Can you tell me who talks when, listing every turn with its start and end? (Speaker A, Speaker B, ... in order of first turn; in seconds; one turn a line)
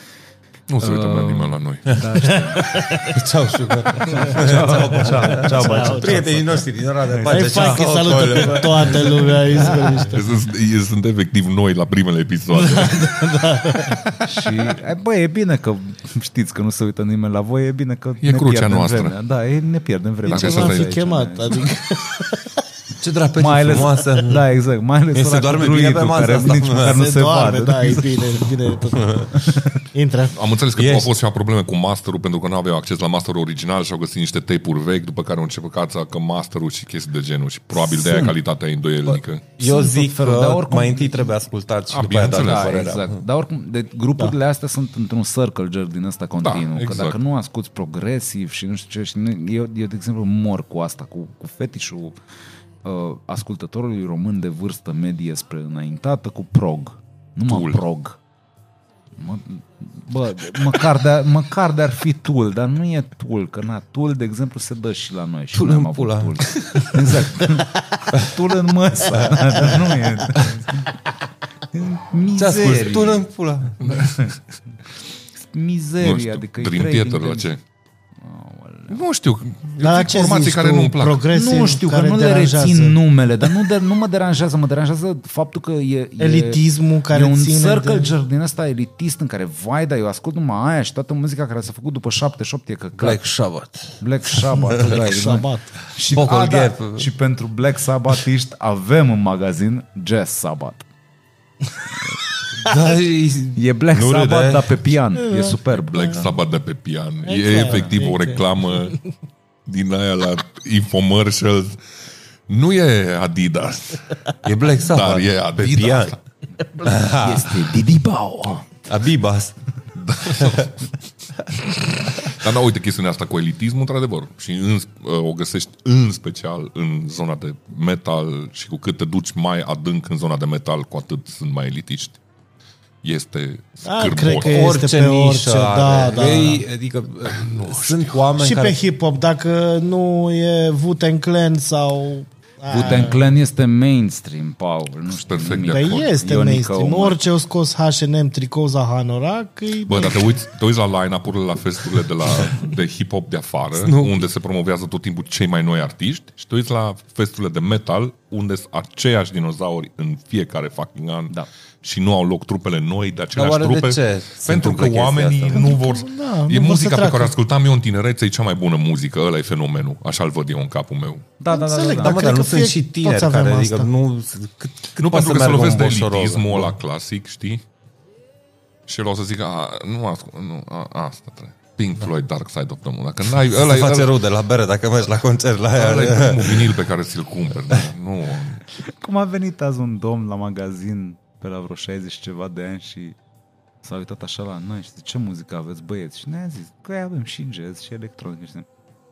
Speaker A: 0.7-2.4
Speaker B: 0.8-2.8
Speaker C: 2.2-3.2
Speaker D: 3.0-9.9
Speaker B: 4.0-10.0
Speaker C: 5.0-6.4
Speaker C: 7.2-10.2
Speaker A: 10.1-13.3
Speaker C: 12.5-14.0
Speaker B: 14.2-21.7
Speaker A: 18.2-19.1
Speaker C: 20.2-22.6
Speaker A: 20.2-21.0
Speaker D: 23.0-24.4
Speaker B: 23.4-28.5
Speaker D: 25.1-27.0
Speaker C: 26.9-29.3
Speaker D: 28.9-29.4
Speaker B: 29.4-29.7
Speaker C: 29.9-30.4
Speaker A: 30.3-39.4
Speaker D: 30.8-31.1
Speaker D: 37.9-38.3
Speaker D: 39.0-43.2
Speaker B: 39.6-41.3
Speaker A: 41.9-42.9
Speaker B: 42.3-52.1
Speaker A: 46.4-47.2
Speaker B: 52.8-58.2
Speaker A: 57.4-57.8
Speaker B: 59.2-70.9
Speaker D: 65.5-67.1
Speaker B: 71.7-73.2
Speaker D: 72.3-73.8
Speaker B: 73.8-74.4
Speaker A: 73.8-74.1
Speaker B: 75.5-77.6
Speaker A: 76.0-77.6
Speaker B: 78.2-79.0
Speaker A: 78.9-81.2
Speaker C: 79.8-83.0
Speaker B: 81.3-93.3
Speaker C: 86.2-88.1
Speaker D: 93.0-94.0
Speaker B: 94.0-100.8
Speaker D: 94.5-94.9
Speaker C: 94.6-95.7
Speaker D: 96.1-97.1
Speaker D: 102.5-104.8
Speaker B: 103.5-106.3
Speaker A: 105.7-109.0
Speaker C: 107.2-108.4
Speaker A: 109.7-111.8
Speaker A: 112.5-114.2
Speaker D: 114.4-116.2
Speaker A: 114.8-116.2
Speaker B: 116.8-118.6
Speaker D: 116.8-117.7
Speaker D: 118.8-119.5
Speaker A: 119.9-120.7
Speaker D: 120.2-120.7
Speaker A: 121.8-132.2
Speaker A: 133.0-134.7
Speaker C: 133.8-136.6
Speaker D: 134.4-138.8
Speaker A: 137.2-138.3
Speaker C: 138.4-143.2
Speaker B: 142.7-147.2
Speaker A: 145.1-146.1
Speaker C: 145.7-150.2
Speaker A: 149.8-171.2
Speaker D: 153.8-154.2
Speaker D: 163.3-165.7
Speaker C: 165.5-167.3
Speaker B: 171.4-172.2
Speaker C: 171.5-173.9
Speaker D: 172.0-176.7
Speaker A: 174.9-177.6
Speaker A: 178.9-184.1
Speaker D: 183.4-186.7
Speaker A: 185.7-188.6
Speaker B: 188.8-193.2
Speaker B: 193.8-198.7